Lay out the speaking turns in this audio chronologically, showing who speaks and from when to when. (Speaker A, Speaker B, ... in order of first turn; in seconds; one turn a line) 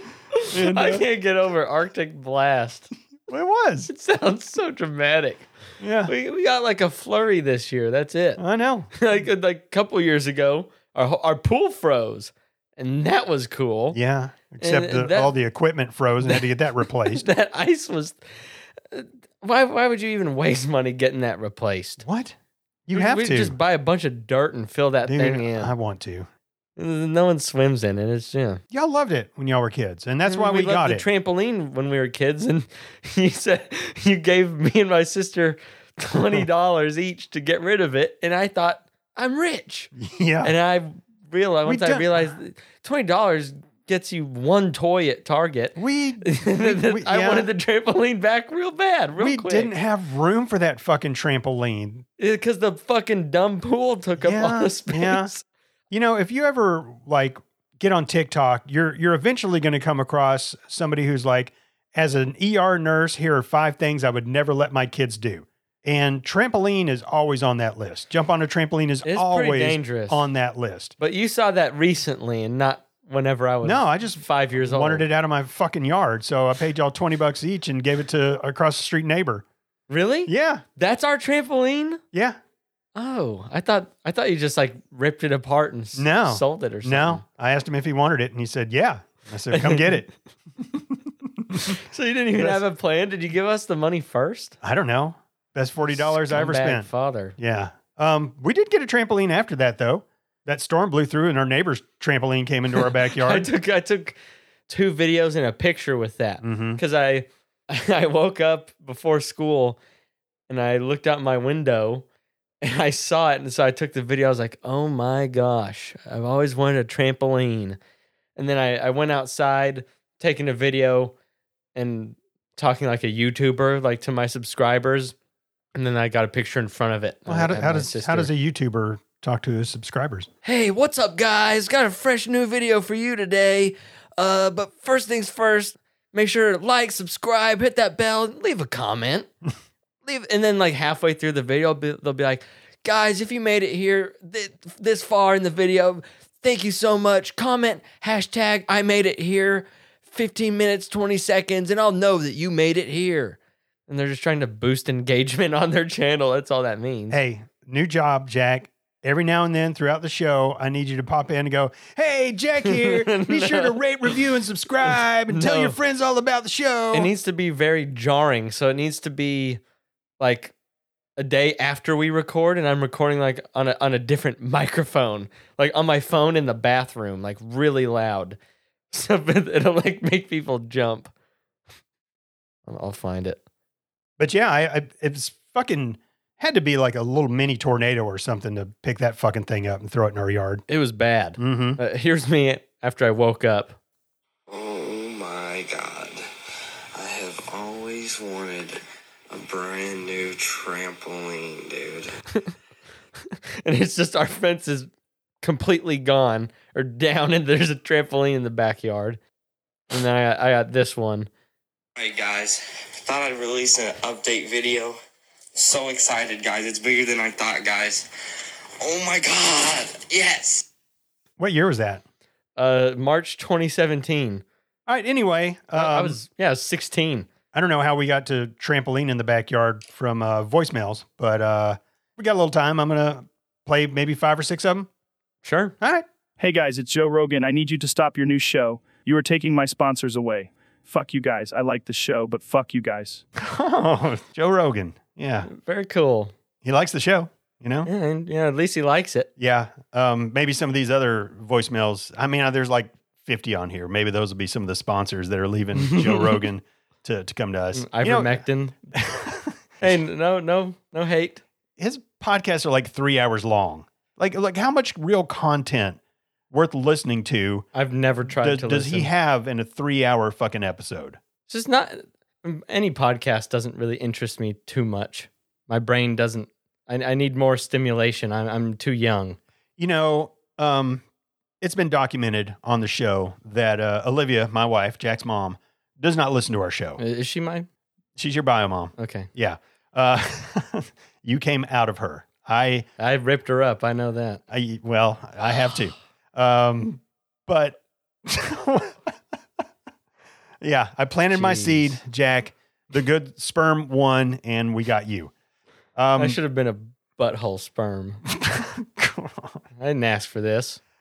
Speaker A: 0.3-2.9
Speaker B: 0.5-1.1
Speaker B: 3.3-3.9
Speaker A: 3.9-5.5
Speaker B: 5.8-6.1
Speaker A: 6.1-8.4
Speaker B: 8.4-8.9
Speaker A: 8.9-14.0
Speaker B: 13.9-17.2
Speaker A: 14.6-15.3
Speaker A: 17.1-18.2
Speaker A: 18.9-22.0
Speaker B: 22.0-22.4
Speaker B: 22.9-23.6
Speaker A: 22.9-25.7
Speaker B: 25.1-26.3
Speaker A: 26.8-28.6
Speaker B: 28.7-31.1
Speaker A: 30.3-39.9
Speaker B: 40.0-40.5
Speaker A: 40.4-49.7
Speaker B: 41.6-42.3
Speaker B: 45.8-47.5
Speaker B: 49.2-52.0
Speaker A: 52.2-55.4
Speaker B: 54.2-55.3
Speaker B: 55.9-70.9
Speaker A: 69.0-70.2
Speaker A: 71.0-75.1
Speaker B: 73.6-79.4
Speaker A: 79.9-82.0
Speaker B: 80.3-80.6
Speaker B: 82.1-82.4
Speaker A: 82.9-87.2
Speaker B: 86.0-90.1
Speaker A: 89.5-90.1
Speaker B: 91.5-91.8
Speaker A: 91.5-94.6
Speaker B: 92.4-92.6
Speaker B: 94.6-103.5
Speaker A: 95.9-97.4
Speaker A: 102.8-104.1
Speaker A: 104.7-109.8
Speaker B: 106.4-106.8
Speaker A: 110.5-112.0
Speaker A: 112.6-117.8
Speaker A: 118.4-121.1
Speaker A: 121.8-125.1
Speaker A: 125.8-128.3
Speaker B: 127.3-130.3
Speaker A: 130.4-139.3
Speaker A: 140.1-157.2
Speaker B: 157.1-167.1
Speaker A: 162.6-164.2
Speaker A: 165.3-165.8
Speaker A: 166.9-169.6
Speaker A: 170.2-170.5
Speaker A: 171.2-178.4
Speaker A: 178.9-181.1
Speaker A: 182.7-183.4
Speaker B: 184.2-190.6
Speaker A: 190.7-193.8
Speaker B: 191.4-191.8
Speaker C: 194.5-196.2
Speaker C: 196.9-198.8
Speaker C: 199.3-202.1
Speaker A: 203.6-204.9
Speaker A: 205.4-209.2
Speaker A: 209.9-211.3
Speaker C: 212.0-214.9
Speaker C: 215.6-218.1
Speaker C: 218.8-220.7
Speaker B: 221.4-222.0
Speaker A: 222.6-224.4
Speaker B: 224.9-226.2
Speaker A: 225.7-227.3
Speaker B: 227.5-234.9
Speaker A: 235.4-235.8
Speaker B: 235.8-236.1
Speaker D: 236.4-243.2
Speaker B: 243.4-245.5
Speaker A: 245.4-246.3
Speaker B: 246.6-247.9
Speaker A: 247.8-249.3
Speaker B: 249.4-258.4
Speaker A: 255.8-256.4
Speaker A: 257.7-258.8
Speaker B: 258.9-259.6
Speaker A: 259.8-261.4
Speaker B: 261.8-266.0
Speaker B: 266.5-267.7
Speaker A: 267.7-269.1
Speaker B: 268.3-271.2
Speaker A: 271.5-279.4
Speaker B: 279.8-281.1
Speaker B: 281.6-287.0
Speaker A: 287.0-287.7
Speaker B: 288.1-292.9
Speaker A: 289.0-289.3
Speaker A: 293.0-294.4
Speaker B: 294.5-299.1
Speaker B: 300.6-305.3
Speaker A: 301.3-302.0
Speaker B: 305.9-306.4
Speaker A: 306.1-308.2
Speaker B: 308.3-309.6
Speaker A: 309.8-310.8